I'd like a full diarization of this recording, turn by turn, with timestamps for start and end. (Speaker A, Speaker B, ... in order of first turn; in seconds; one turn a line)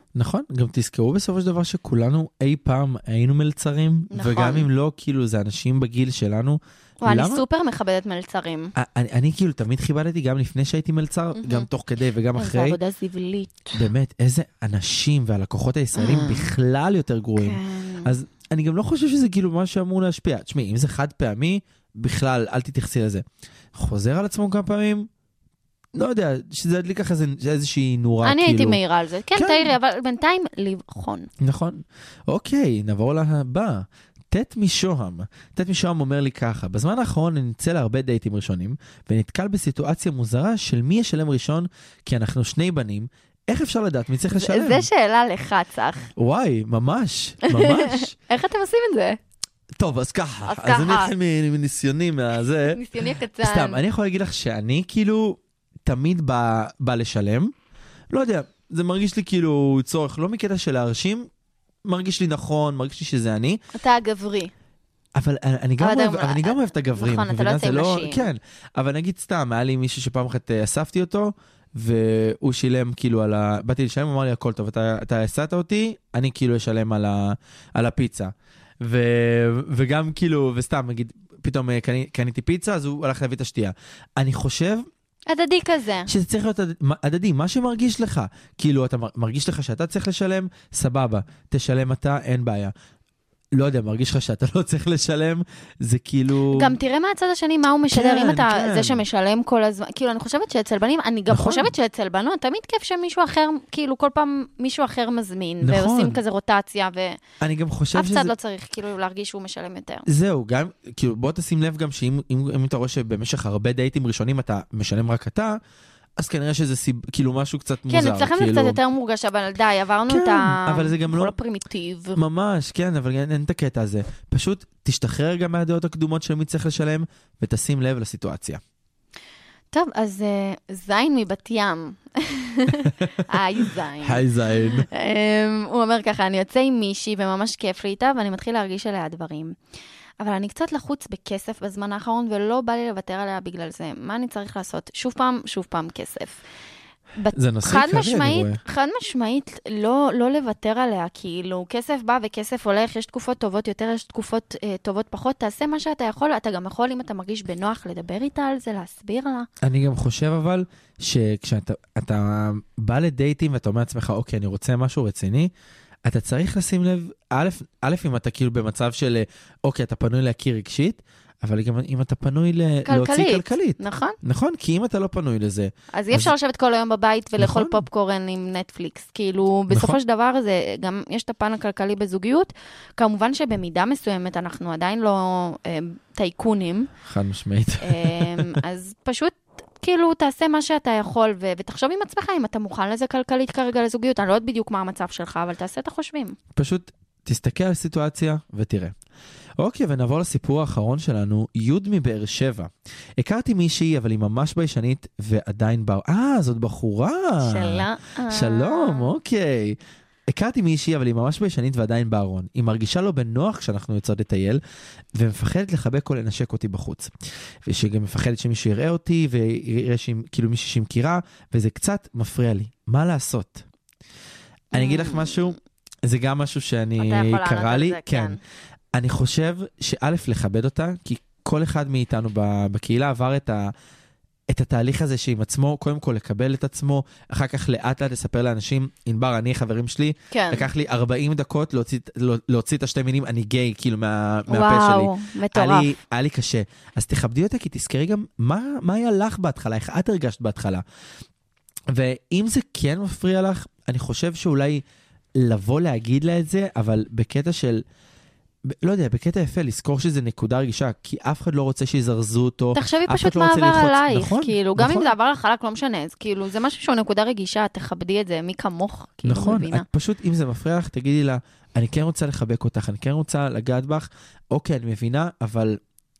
Speaker A: 0.1-7.4
Speaker B: 4.1-4.7
Speaker B: 7.0-8.7
Speaker A: 8.8-12.8
Speaker B: 11.3-11.7
Speaker B: 12.3-13.8
Speaker A: 13.7-25.1
Speaker B: 15.9-16.5
Speaker B: 17.4-18.1
Speaker A: 25.9-28.8
Speaker B: 28.2-31.3
Speaker A: 29.3-29.7
Speaker A: 31.4-44.9
Speaker B: 44.3-46.1
Speaker A: 46.1-48.1
Speaker B: 47.5-49.2
Speaker A: 49.8-52.8
Speaker B: 50.4-51.1
Speaker B: 52.7-53.8
Speaker A: 53.4-57.5
Speaker A: 58.1-61.3
Speaker A: 61.8-63.6
Speaker B: 63.7-64.5
Speaker A: 65.2-84.8
Speaker B: 65.8-68.3
Speaker B: 85.3-86.1
Speaker A: 86.1-92.7
Speaker A: 93.5-96.7
Speaker B: 96.5-107.2
Speaker A: 97.9-99.0
Speaker A: 101.3-101.7
Speaker A: 105.6-106.2
Speaker A: 107.4-108.3
Speaker B: 107.9-110.0
Speaker A: 110.0-115.6
Speaker A: 116.2-118.8
Speaker B: 117.9-122.2
Speaker A: 120.1-121.3
Speaker A: 122.1-128.6
Speaker B: 129.7-134.2
Speaker A: 134.0-134.9
Speaker B: 134.9-139.5
Speaker B: 140.2-146.4
Speaker B: 147.2-159.5
Speaker A: 147.3-148.6
Speaker A: 159.6-165.5
Speaker A: 166.0-176.3
Speaker B: 172.8-174.2
Speaker B: 175.9-186.9
Speaker A: 177.4-177.8
Speaker A: 179.7-180.0
Speaker A: 187.0-188.6
Speaker B: 187.8-196.4
Speaker A: 196.5-198.9
Speaker A: 199.6-209.8
Speaker B: 207.4-209.2
Speaker A: 210.3-214.6
Speaker A: 215.1-217.1
Speaker A: 217.6-223.6
Speaker A: 224.7-228.4
Speaker B: 224.7-225.4
Speaker B: 227.0-228.4
Speaker A: 228.9-233.7
Speaker A: 234.5-250.8
Speaker B: 240.3-240.7
Speaker B: 244.5-245.9
Speaker A: 251.9-254.8
Speaker A: 255.3-257.8
Speaker A: 258.7-265.1
Speaker B: 262.7-269.9
Speaker A: 269.2-275.8